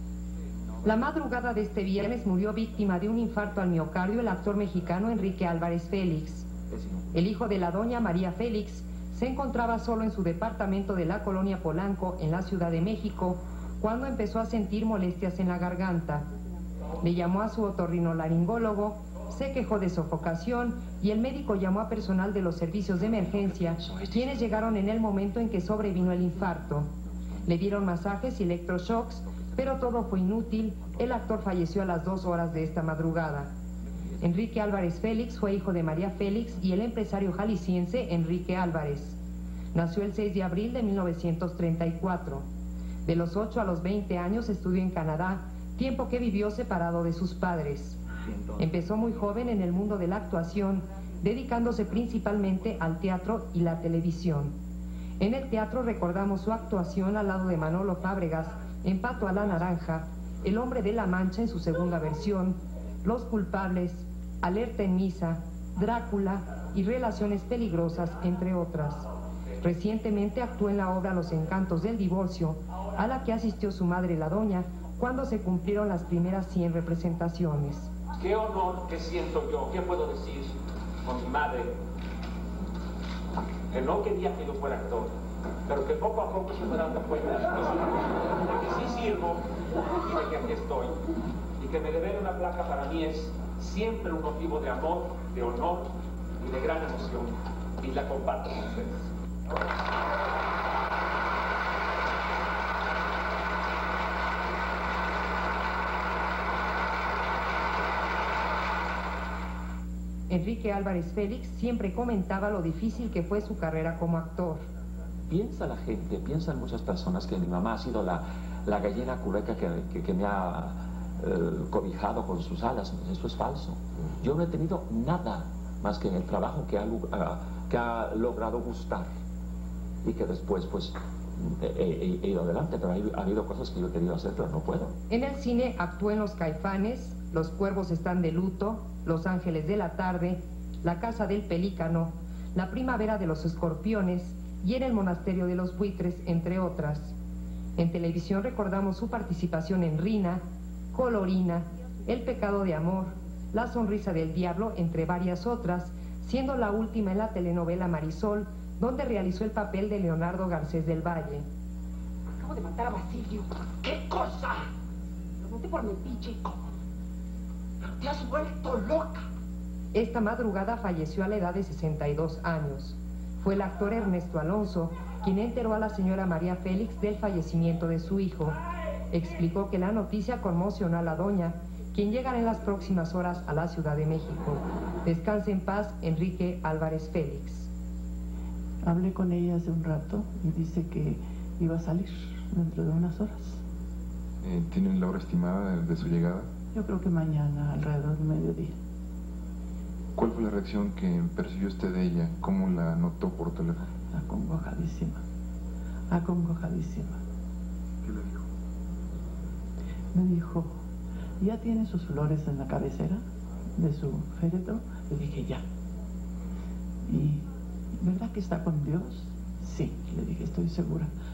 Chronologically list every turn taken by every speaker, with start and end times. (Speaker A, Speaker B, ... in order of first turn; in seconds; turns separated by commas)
Speaker A: 0.8-6.5, Speaker A: 7.1-16.2, Speaker A: 17.0-26.9, Speaker B: 23.4-24.3, Speaker A: 27.4-33.5, Speaker A: 34.2-39.2, Speaker A: 39.7-42.5, Speaker A: 43.1-48.0, Speaker A: 48.6-54.5, Speaker A: 55.2-69.1, Speaker A: 69.6-77.9, Speaker C: 78.2-81.8, Speaker C: 83.7-85.1, Speaker C: 85.7-91.0, Speaker C: 91.6-95.9, Speaker C: 96.4-99.1, Speaker A: 110.3-114.6, Speaker B: 115.3-129.1, Speaker B: 130.0-134.9, Speaker A: 135.1-147.2, Speaker A: 147.8-150.4, Speaker A: 150.9-161.4, Speaker D: 162.4-164.7, Speaker D: 165.4-166.6, Speaker D: 167.8-169.3, Speaker A: 169.9-178.6, Speaker A: 179.1-187.7, Speaker E: 188.8-193.6, Speaker F: 194.4-196.5, Speaker E: 196.7-198.8, Speaker F: 200.2-203.8, Speaker E: 204.1-205.2, Speaker E: 206.1-207.2, Speaker F: 208.1-208.4, Speaker E: 210.1-210.7, Speaker E: 211.4-213.2, Speaker E: 213.8-215.6, Speaker E: 217.1-217.4, Speaker E: 218.0-221.1